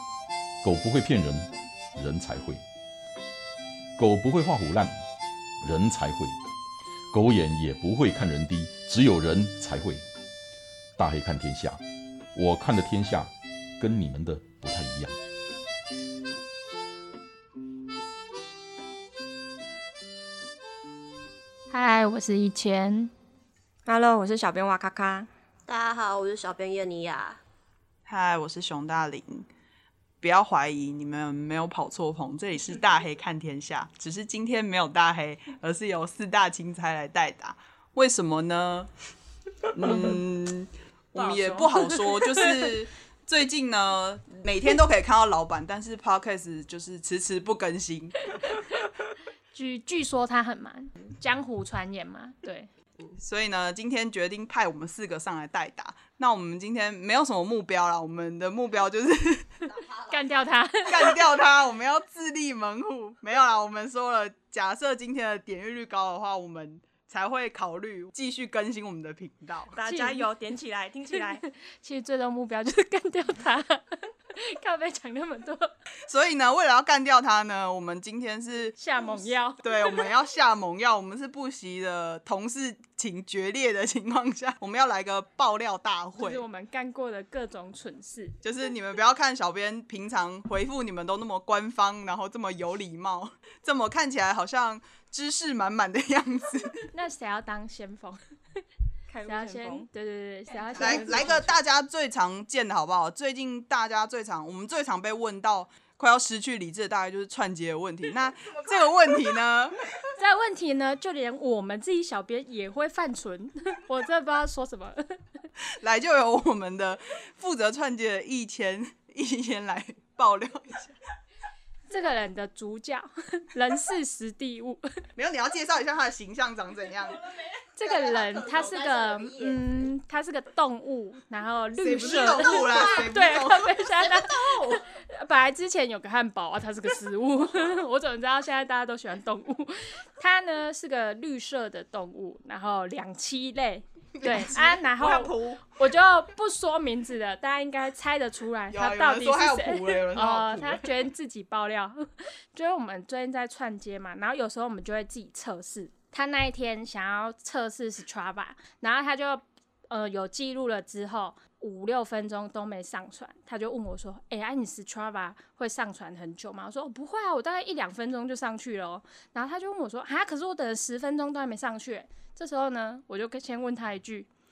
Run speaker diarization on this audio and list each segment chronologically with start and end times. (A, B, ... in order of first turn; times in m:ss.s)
0:00.6-0:02.6 A
0:04.0-0:05.0 A
0:05.6-0:06.4 A
0:07.1-0:10.0 A
0:11.0-0:11.8 A
0:12.3-0:13.3 A
0:13.8-0:15.1 A
0:21.7-0:23.1 B
0:23.8-0:25.3 C
0:25.7-0:27.4 D
0:28.1-0:29.5 E
0:30.2-0:38.9 E
0:39.7-0:48.2 E
0:41.1-0:42.0 C
0:49.5-0:52.7 B
0:53.2-0:59.5 E
0:59.6-1:00.4 D
1:00.1-1:01.2 B
1:00.9-1:09.8 E
1:09.7-1:11.4 C
1:09.8-1:10.2 B
1:11.1-1:15.7 B
1:16.1-1:26.4 E
1:18.8-1:19.6 B
1:26.2-1:28.3 B
1:28.4-1:36.9 E
1:36.9-1:38.2 B
1:39.1-1:39.9 C
1:39.2-1:41.5 B
1:40.8-1:49.8 E
1:50.2-1:55.2 B
1:55.8-2:00.9 E
2:01.9-2:04.8 B
2:05.2-2:07.2 E
2:07.8-2:54.3 B
2:07.8-2:09.6 D
2:11.8-2:13.8 E
2:12.0-2:14.8 D
2:24.2-2:24.8 E
2:25.0-2:25.6 C
2:28.7-2:30.9 E